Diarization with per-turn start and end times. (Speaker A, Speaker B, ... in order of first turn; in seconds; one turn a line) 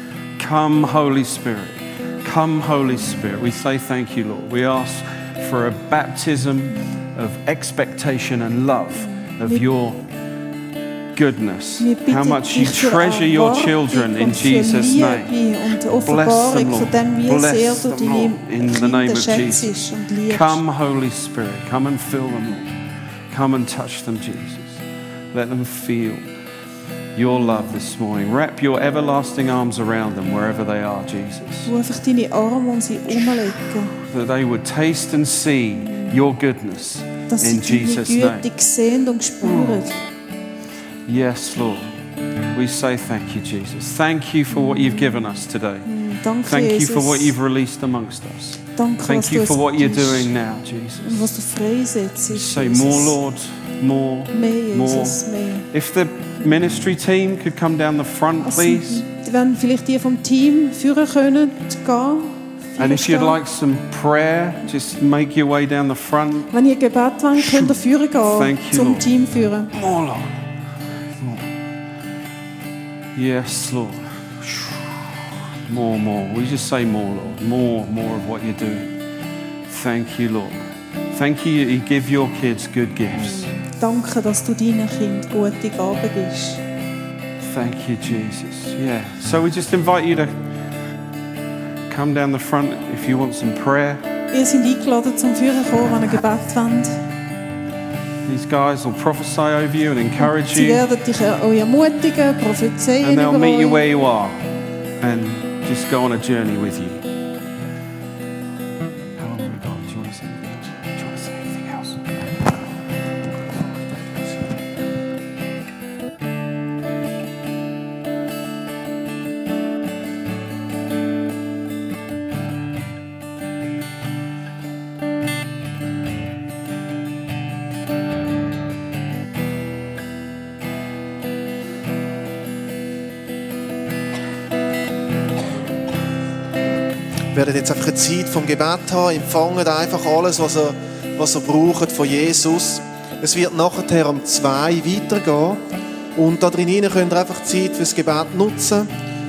Speaker A: 0.4-10.0
Speaker B: 9.1-9.6
Speaker A: 11.1-15.3
Speaker B: 11.8-20.6
Speaker A: 16.1-19.7
Speaker A: 20.3-22.7
Speaker A: 23.3-24.8
Speaker A: 25.3-26.2
Speaker A: 27.1-31.7
Speaker B: 31.6-34.0
Speaker A: 34.0-38.4
Speaker B: 37.3-40.0
Speaker A: 41.0-42.0
Speaker A: 42.5-45.9
Speaker B: 44.7-45.0
Speaker B: 45.9-47.3
Speaker A: 46.5-51.3
Speaker B: 48.7-50.3
Speaker B: 51.0-53.1
Speaker A: 52.3-59.0
Speaker B: 54.3-55.7
Speaker B: 58.4-63.4
Speaker A: 62.8-66.5
Speaker B: 66.5-69.7
Speaker A: 67.4-69.1
Speaker A: 69.7-70.4
Speaker A: 71.2-71.4
Speaker A: 73.1-78.9
Speaker A: 79.7-83.5
Speaker B: 83.2-86.6
Speaker A: 87.4-90.3
Speaker A: 91.9-94.0
Speaker B: 94.3-97.0
Speaker A: 98.2-100.8
Speaker B: 100.2-103.8
Speaker A: 103.0-104.5
Speaker A: 105.0-107.0
Speaker A: 109.2-112.1
Speaker C: 137.3-145.6
Speaker C: 146.2-148.9